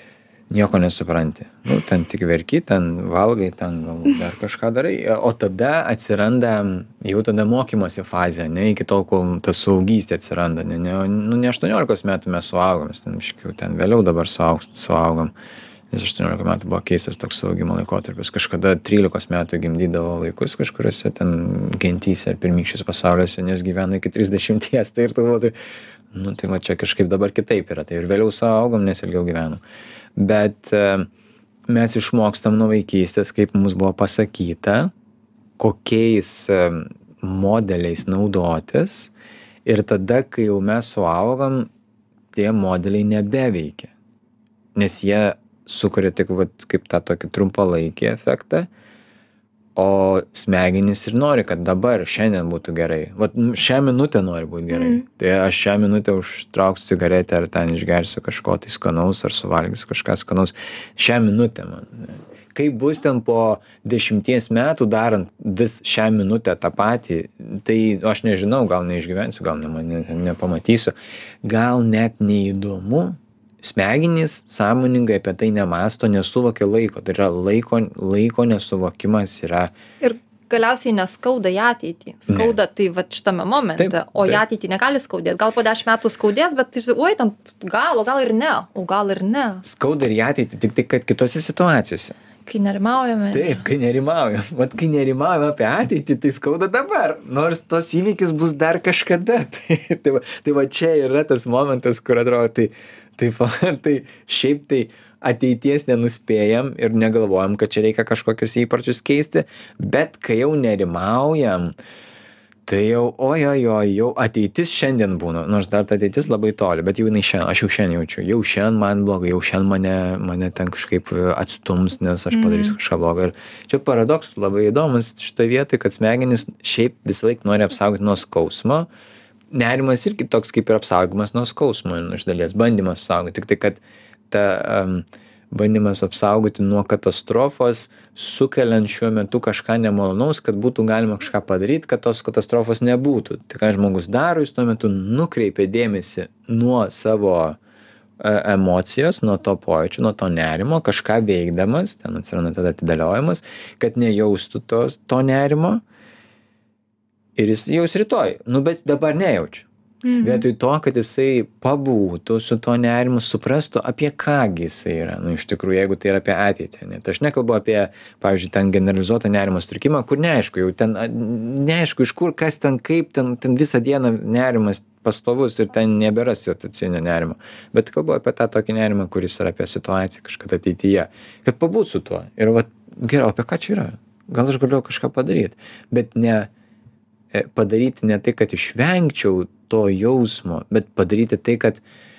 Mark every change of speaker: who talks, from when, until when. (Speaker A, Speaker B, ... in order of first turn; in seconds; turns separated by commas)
Speaker A: 0.5-15.3, Speaker A: 15.9-25.5, Speaker A: 26.1-29.6, Speaker A: 30.1-31.1, Speaker A: 31.7-34.9, Speaker A: 35.6-39.1, Speaker A: 39.6-41.7, Speaker A: 42.3-43.9, Speaker A: 44.7-48.7, Speaker A: 49.8-79.7, Speaker B: 54.7-55.0, Speaker B: 80.0-89.6, Speaker A: 82.3-82.6, Speaker A: 83.8-84.4, Speaker A: 89.6-92.2, Speaker B: 92.5-93.7, Speaker A: 93.3-111.7, Speaker A: 112.7-128.9, Speaker B: 122.3-122.8, Speaker A: 129.5-147.6, Speaker A: 148.2-155.8, Speaker A: 157.3-159.7, Speaker B: 160.0-160.4, Speaker A: 160.2-186.5, Speaker A: 187.3-191.8